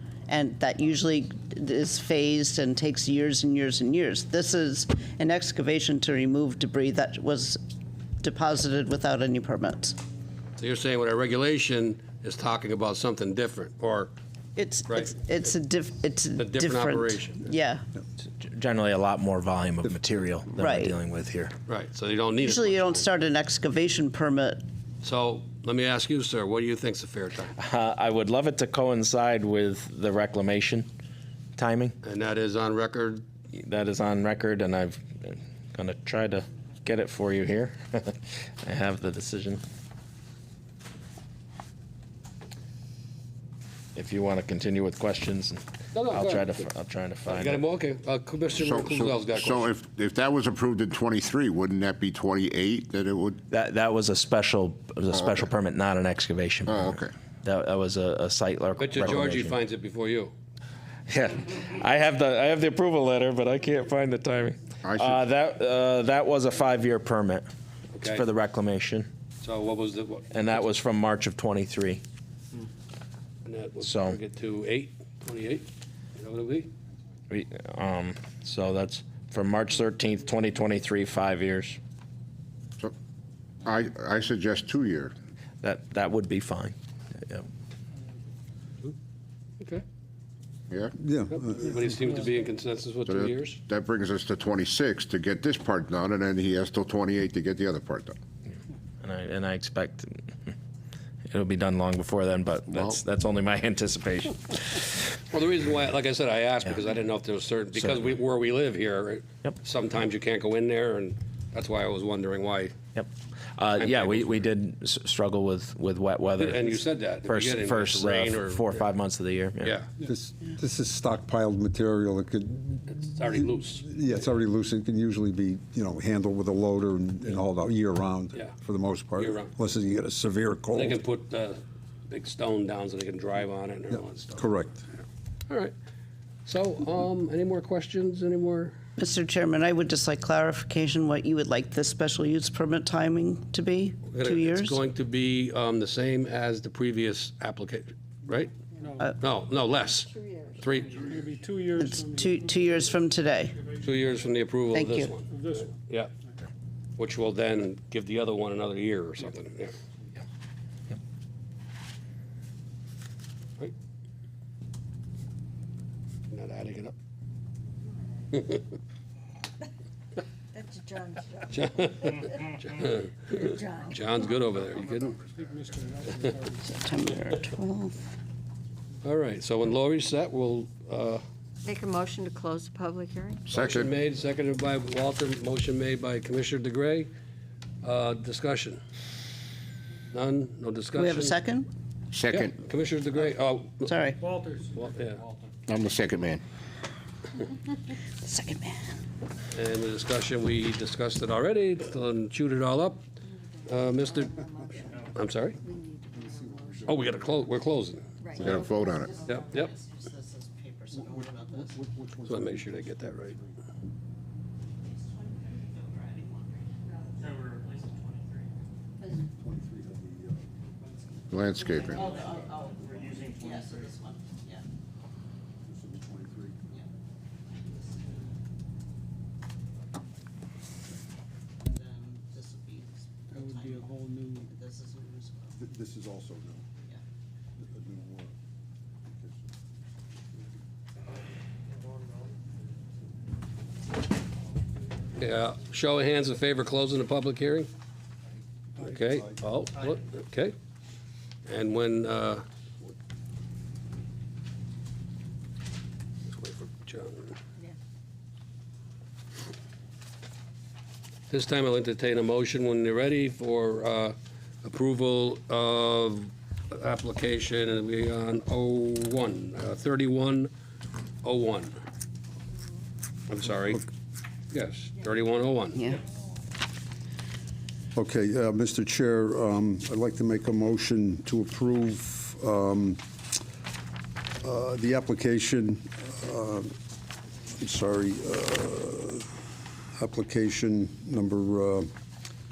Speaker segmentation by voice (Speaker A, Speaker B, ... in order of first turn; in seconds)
Speaker A: 0.3-7.6, 8.2-10.0, 14.6-17.8, 20.5-20.9, 22.4-24.6, 139.0-144.8, 151.8-153.5, 154.7-155.1, 176.6-178.1, 190.9-191.7, 193.8-194.2, 198.2-199.0, 208.8-211.8, 215.0-216.7, 221.6-224.6, 227.6-228.4, 231.6-235.5
Speaker B: 10.6-14.1, 14.9-15.1, 16.4-17.5, 21.6-23.1, 25.0-27.5, 32.0-33.2, 45.9-46.6, 47.3-49.7, 58.8-60.3, 67.9-68.2, 69.4-70.3, 73.4-76.7, 91.3-93.6, 105.3-112.8, 113.8-114.5, 116.4-118.9, 119.6-119.9, 122.9-123.9, 129.2-129.5, 130.7-134.5, 135.5-135.7, 136.4-138.8, 144.1-148.5, 149.2-151.2, 153.8-156.1, 157.0-159.7, 166.3-166.9, 168.3-168.6, 171.5-175.2, 179.0-181.2, 183.5-187.1, 187.8-188.8, 190.1-191.4, 192.3-193.9, 194.7-195.2, 199.5-203.1, 203.6-204.5, 205.1-205.6, 206.8-208.1, 209.2-209.7, 212.2-213.4, 245.2-247.7, 248.8-250.5, 251.4-252.4, 256.3-257.4, 261.3-270.5, 271.2-271.8, 273.3-273.9, 274.5-275.9
Speaker C: 18.2-21.5, 27.6-30.9, 31.6-31.9, 33.5-39.6, 43.9-47.6, 53.5-59.5, 61.1-67.5, 68.0-69.1, 70.3-72.0, 73.8-74.2, 77.3-81.8, 85.6-87.5, 99.0-100.5, 101.3-105.2, 112.9-119.8
Speaker D: 48.5-53.4, 55.1-55.5, 56.7-57.1, 64.8-65.2, 83.6-85.1, 93.0-98.2, 102.7-103.0, 183.5-183.9, 192.1-192.5, 195.7-196.4, 208.4-209.1, 221.3-222.2
Speaker E: 90.9-92.0, 120.0-131.0, 134.4-134.8, 206.1-207.5, 210.9-213.6, 219.2-220.5, 225.6-226.6, 235.6-236.7, 237.6-238.3, 239.1-239.5, 277.9-283.0, 284.4-286.7, 287.6-289.3, 289.9-291.9
Speaker F: 148.8-149.1, 150.9-152.8, 155.3-155.6, 175.3-176.7, 194.2-194.6, 233.3-234.5
Speaker G: 149.9-150.7, 170.5-171.5, 173.3-174.4, 181.6-183.5, 203.2-205.1, 205.6-206.8, 208.2-209.2